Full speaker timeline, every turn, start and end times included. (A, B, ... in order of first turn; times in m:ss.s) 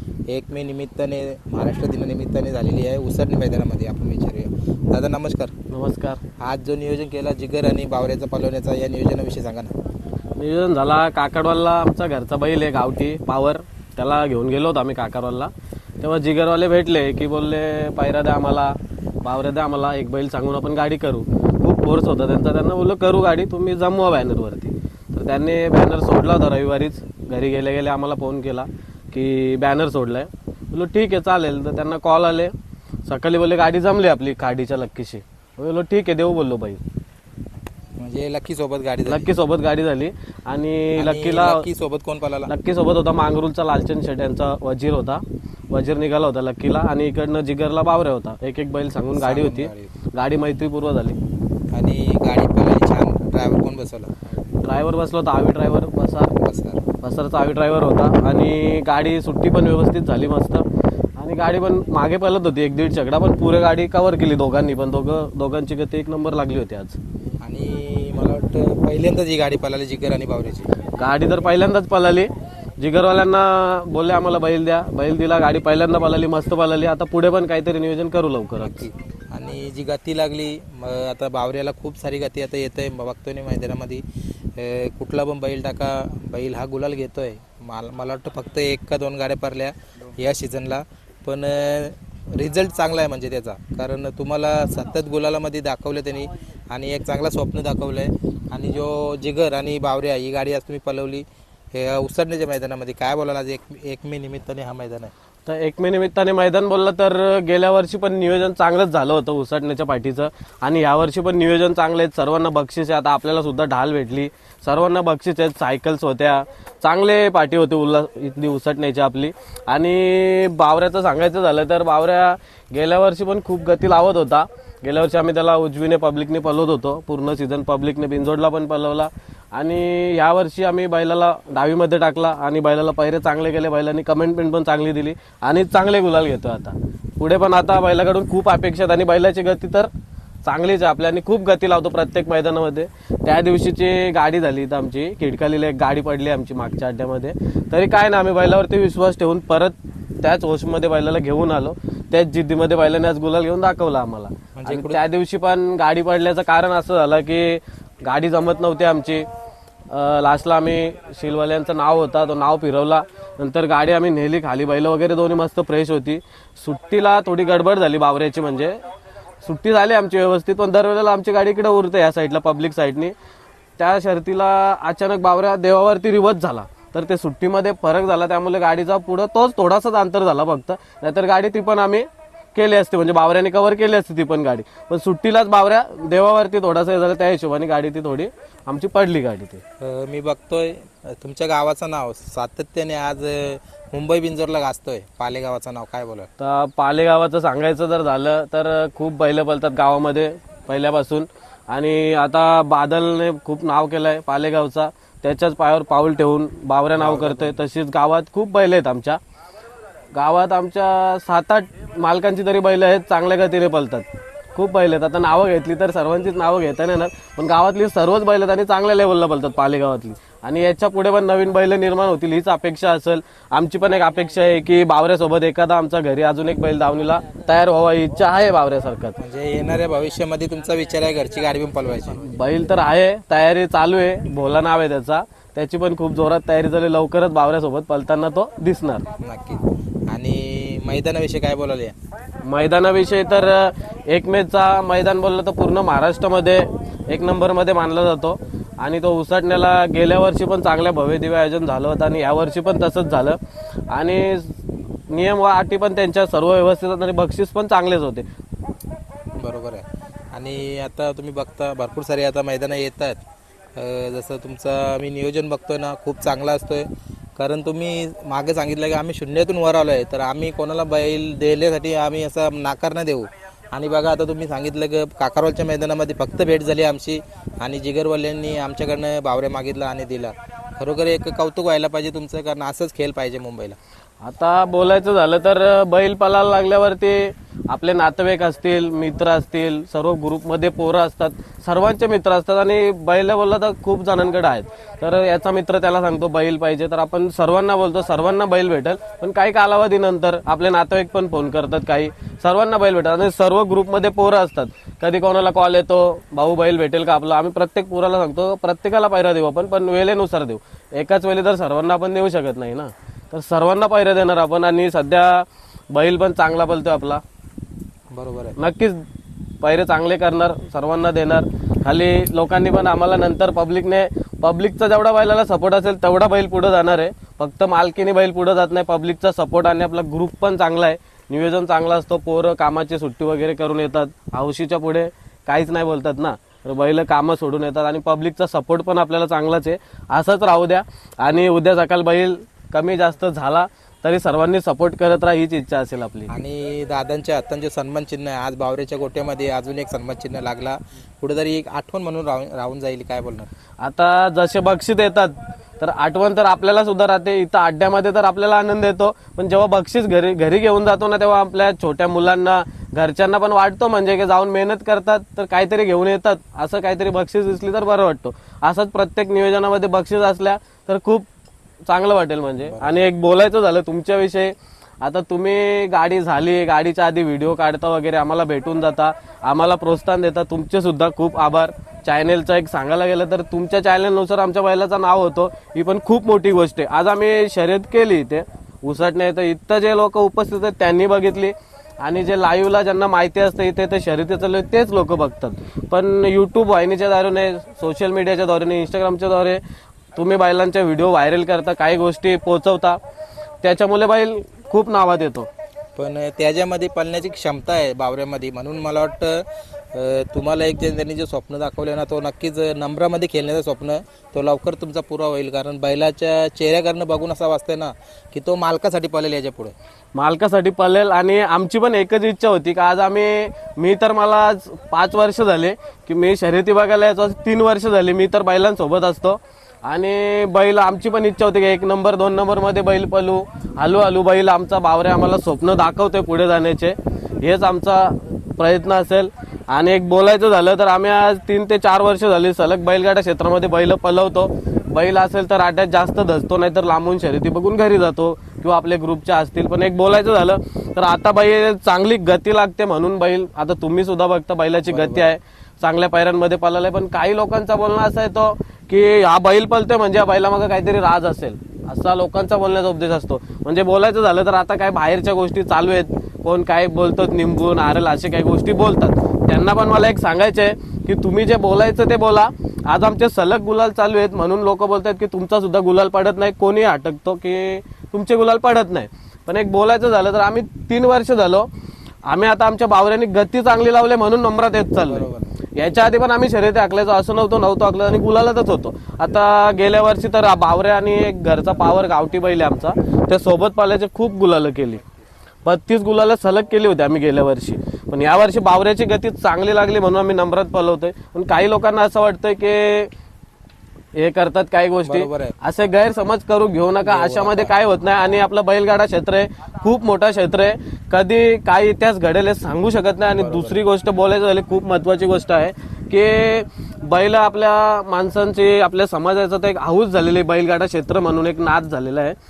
0:00.3-0:05.5 A
0:05.7-0:06.2 B
0:06.4-0:09.7 A
0:10.4-0:32.5 B
0:33.0-0:36.8 B
0:38.0-0:39.3 A
0:39.1-0:41.7 B
0:41.0-0:42.5 A
0:42.5-0:51.2 B
0:49.1-0:49.9 A
0:51.7-0:54.1 A
0:54.6-0:56.3 B
0:56.3-0:56.8 A
0:57.0-1:00.6 B
1:01.2-1:07.0 B
1:07.4-1:10.7 A
1:11.0-1:18.9 B
1:18.6-1:24.0 A
1:24.6-1:45.1 A
1:45.5-2:19.9 B
2:20.4-2:39.3 B
2:34.6-2:35.0 A
2:39.9-2:48.8 B
2:49.4-2:53.1 B
2:53.8-3:09.6 B
3:09.8-3:16.3 A
3:16.4-3:29.2 B
3:27.0-3:27.6 A
3:30.1-3:49.2 B
3:49.2-3:52.3 A
3:52.2-3:59.1 B
3:59.2-4:01.9 A
4:02.4-4:13.4 B
4:13.9-4:14.6 B
4:15.1-4:18.2 B
4:19.4-4:23.2 A
4:23.8-4:43.8 A
4:44.2-5:17.2 B
5:18.1-5:18.6 A
5:18.6-5:19.0 B
5:19.6-5:46.3 B
5:46.3-5:53.5 A
5:53.8-6:11.2 B
6:11.8-6:39.6 B
6:12.6-6:13.0 A
6:40.1-6:43.0 B
6:43.6-6:45.5 B
6:46.0-6:59.7 A
7:00.2-8:01.7 B
7:34.9-7:35.3 A
8:02.2-8:15.0 B
8:05.0-8:05.5 A
8:15.6-8:23.1 B
8:24.1-8:42.4 B
8:25.1-8:25.5 A
8:27.0-8:27.7 A
8:33.4-8:33.8 A